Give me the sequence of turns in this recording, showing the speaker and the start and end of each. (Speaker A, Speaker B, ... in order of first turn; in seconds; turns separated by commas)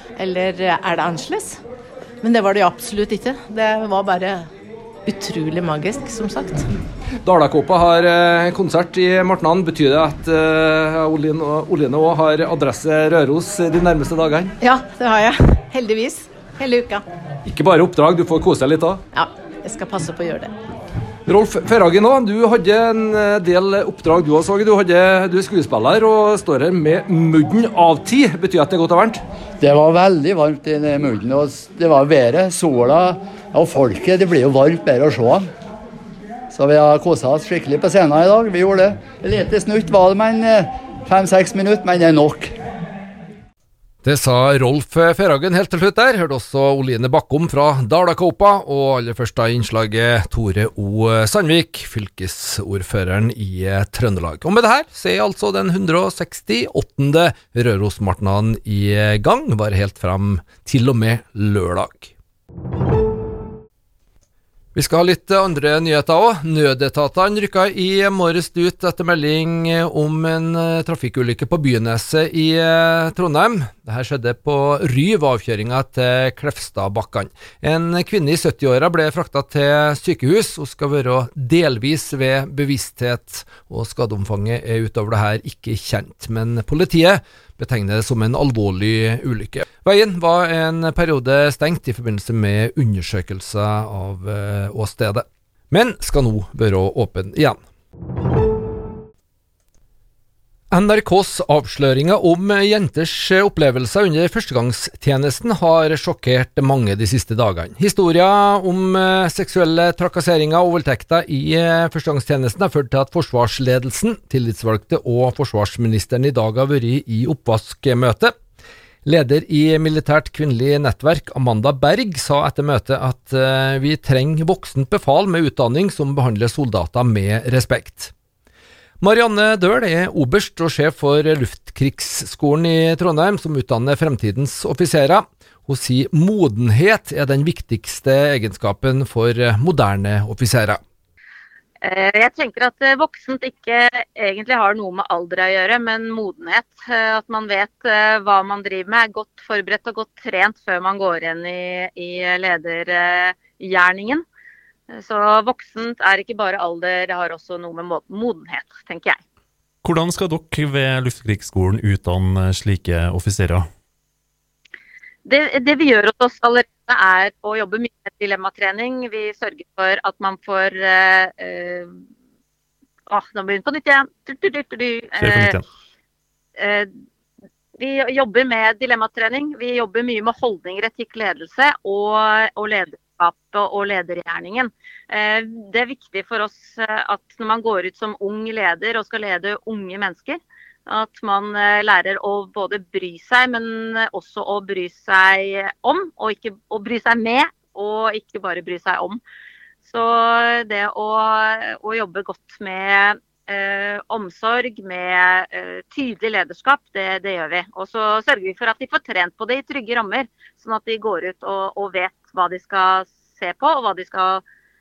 Speaker A: 0.2-1.6, Speaker A: 2.2-4.5, Speaker A: 5.1-6.7, Speaker B: 7.2-14.5, Speaker A: 14.6-17.1, Speaker B: 17.5-19.0, Speaker A: 19.1-20.5, Speaker B: 21.3-29.2, Speaker C: 29.6-35.5, Speaker C: 36.5-42.5, Speaker B: 44.0-62.1, Speaker B: 64.8-97.6, Speaker B: 100.7-118.3, Speaker B: 119.0-128.1, Speaker B: 129.0-140.8, Speaker D: 141.8-154.2, Speaker D: 154.9-159.2, Speaker E: 159.8-163.7, Speaker D: 165.2-171.9, Speaker D: 173.1-175.5, Speaker E: 175.2-175.6, Speaker D: 176.6-176.9, Speaker D: 177.8-199.2, Speaker D: 199.9-214.4